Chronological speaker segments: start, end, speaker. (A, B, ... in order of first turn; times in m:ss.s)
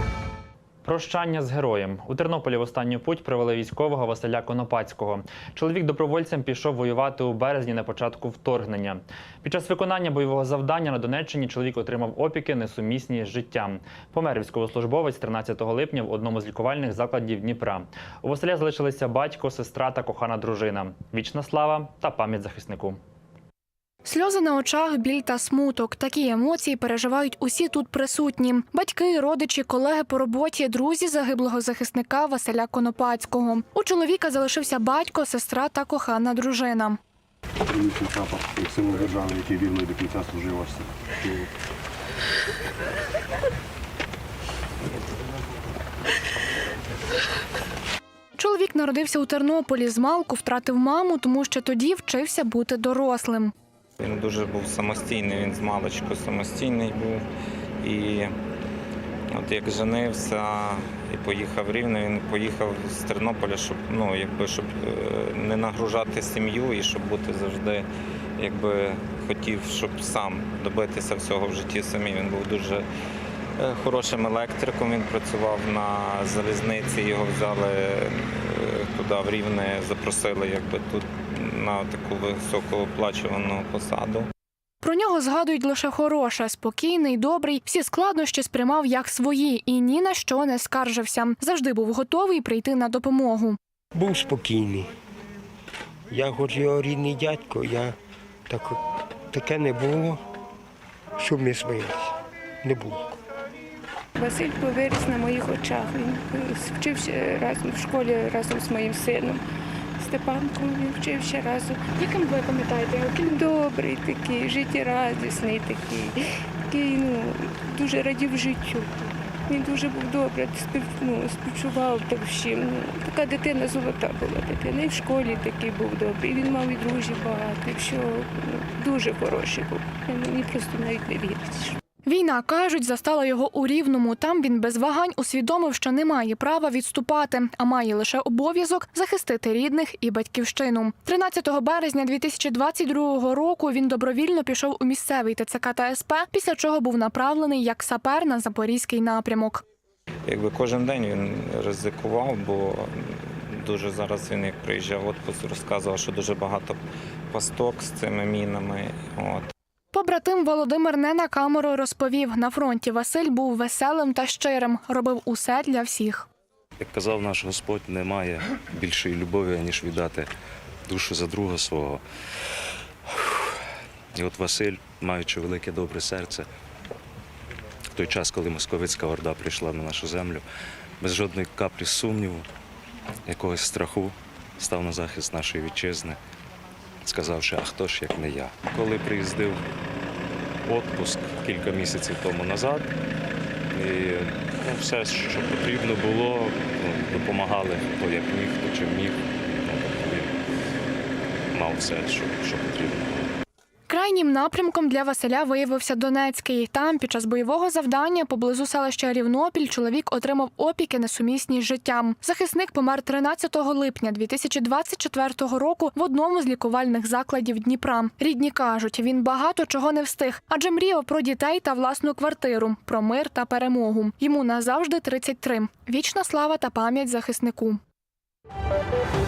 0:00.8-0:23.0 A
0:24.0-0:37.0 B
0:37.7-0:41.5 C
0:48.4-0:53.5 B
0:54.0-0:57.2 D
0:57.8-0:58.3 D
0:59.3-1:07.9 D
1:08.4-1:12.8 D
1:13.6-1:24.3 D
1:24.8-1:33.6 B
1:34.0-1:34.9 E
1:36.1-1:38.0 E
1:38.5-1:38.8 E
1:39.3-1:40.2 E
1:41.2-1:42.0 E
1:42.6-1:43.1 E
1:44.2-1:49.4 F
1:50.0-1:56.2 F
1:56.7-2:11.8 F
2:12.1-2:29.6 B
2:30.3-2:36.8 D
2:37.3-2:39.5 D
2:39.9-2:46.3 B
2:46.8-2:50.3 G
2:50.9-2:52.0 G
2:54.1-2:56.5 G
2:57.9-3:00.4 G
3:01.0-3:02.5 G
3:03.3-3:06.2 G
3:07.1-3:09.6 G
3:10.6-3:12.9 G
3:13.7-3:20.4 G
3:21.5-3:23.3 G
3:23.9-3:47.8 B